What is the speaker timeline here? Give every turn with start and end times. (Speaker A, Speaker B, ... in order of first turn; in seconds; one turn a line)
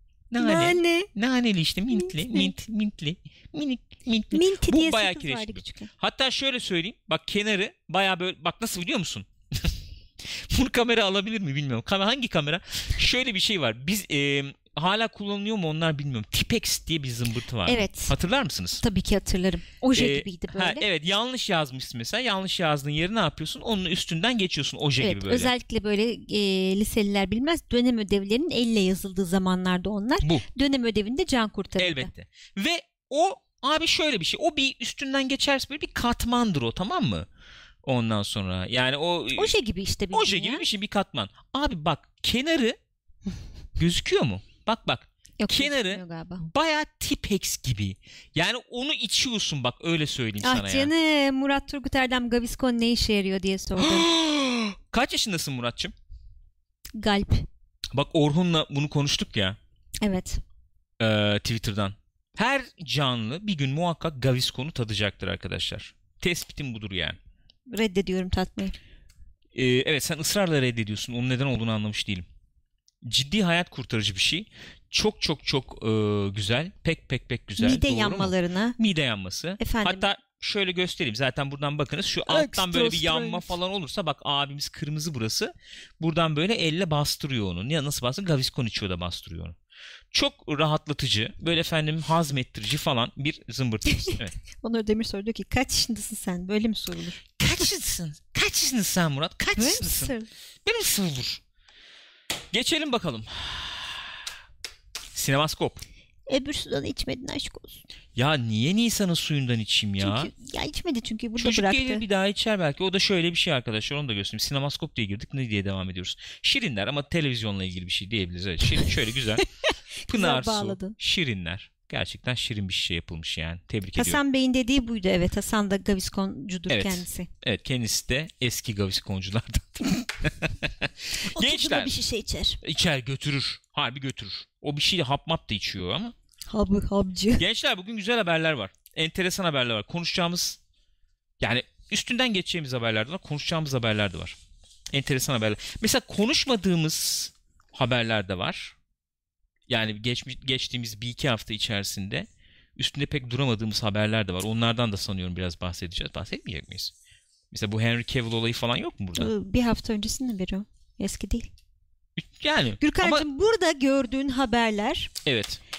Speaker A: 0.3-18.8
Speaker B: 0.4-1.1
Speaker B: 1.9-2.5
Speaker B: 4.3-5.9
Speaker B: 17.7-18.1
Speaker B: 18.8-20.9
Speaker A: 19.9-25.5
Speaker B: 25.0-32.1
Speaker A: 31.8-37.3
Speaker A: 37.8-39.6
Speaker B: 39.4-40.7
Speaker A: 40.1-42.8
Speaker A: 43.8-50.9
Speaker B: 45.4-46.5
Speaker B: 50.4-54.1
Speaker A: 53.8-55.9
Speaker B: 57.0-57.5
Speaker A: 57.9-59.6
Speaker B: 60.0-60.4
Speaker A: 61.0-67.2
Speaker B: 67.7-68.8
Speaker A: 69.5-72.3
Speaker A: 73.0-89.6
Speaker B: 77.6-78.8
Speaker B: 79.6-80.1
Speaker B: 82.3-83.5
Speaker A: 90.1-94.3
Speaker B: 93.9-97.2
Speaker A: 97.4-100.1
Speaker B: 99.6-100.3
Speaker A: 100.7-101.4
Speaker A: 102.5-104.2
Speaker A: 105.1-105.8
Speaker B: 106.3-107.8
Speaker A: 108.2-110.3
Speaker B: 110.0-112.0
Speaker A: 111.4-119.4
Speaker B: 118.7-121.0
Speaker A: 120.1-124.2
Speaker B: 124.0-127.3
Speaker A: 126.7-131.9
Speaker B: 131.2-132.6
Speaker A: 132.6-136.1
Speaker B: 136.5-137.4
Speaker A: 137.4-140.6
Speaker A: 141.4-144.4
Speaker A: 144.9-148.8
Speaker A: 149.7-156.9
Speaker A: 157.5-159.3
Speaker B: 159.2-161.5
Speaker A: 162.2-163.2
Speaker B: 162.8-165.1
Speaker A: 165.2-165.6